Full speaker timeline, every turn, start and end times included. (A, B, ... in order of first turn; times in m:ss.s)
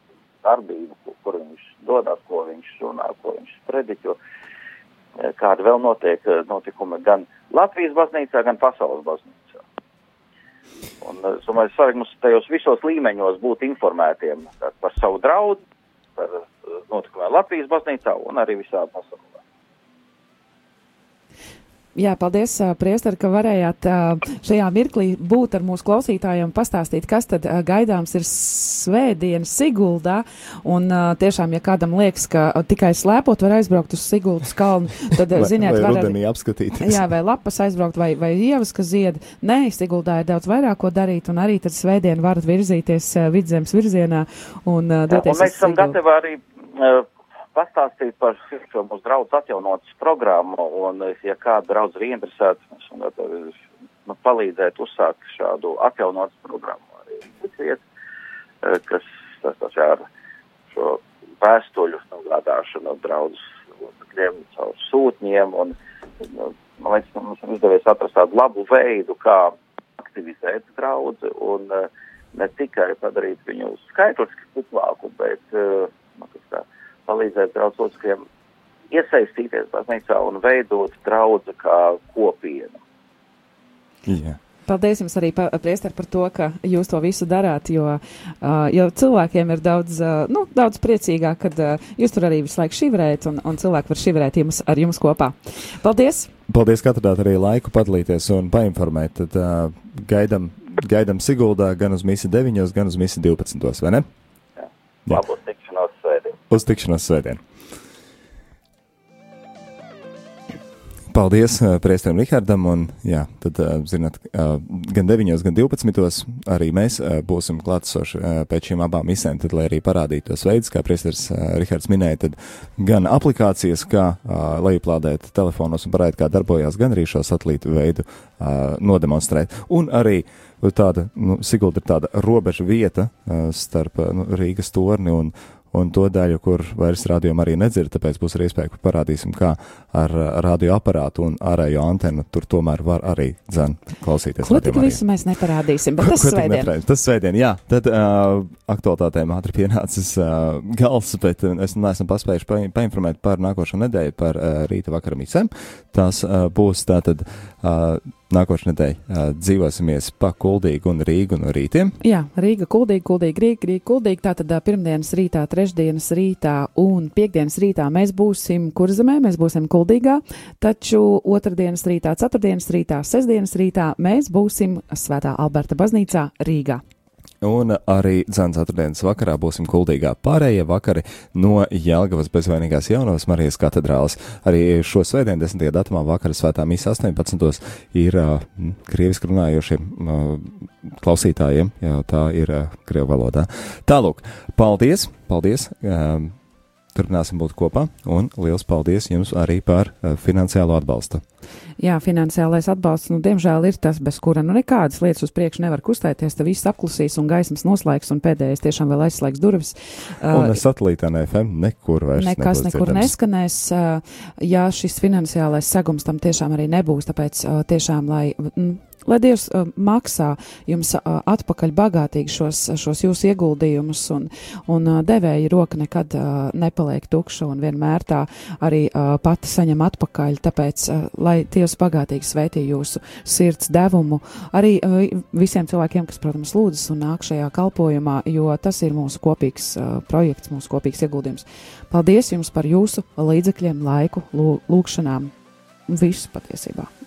0:00.4-0:04.2 A
0:05.2-0:09.6 A
0:11.0-0:15.6 A
0:16.2-0:19.4 A
0:22.0-0:36.2 B
0:35.4-0:37.0 C
0:36.8-0:46.0 B
0:45.1-0:57.8 A
0:58.6-1:00.0 A
1:00.7-1:18.2 A
1:18.9-1:22.8 A
1:24.1-1:24.4 C
1:24.7-1:36.3 B
1:36.5-1:44.0 C
1:44.6-1:46.4 A
1:46.5-1:47.4 C
1:51.1-2:25.0 C
2:24.4-2:26.7 B
2:26.0-2:42.0 C
2:42.0-2:56.8 B
2:57.4-3:16.3 C
3:17.0-3:21.2 C
3:21.8-3:30.6 B
3:30.3-3:33.1 C
3:32.2-4:05.3 B
4:05.9-4:06.9 B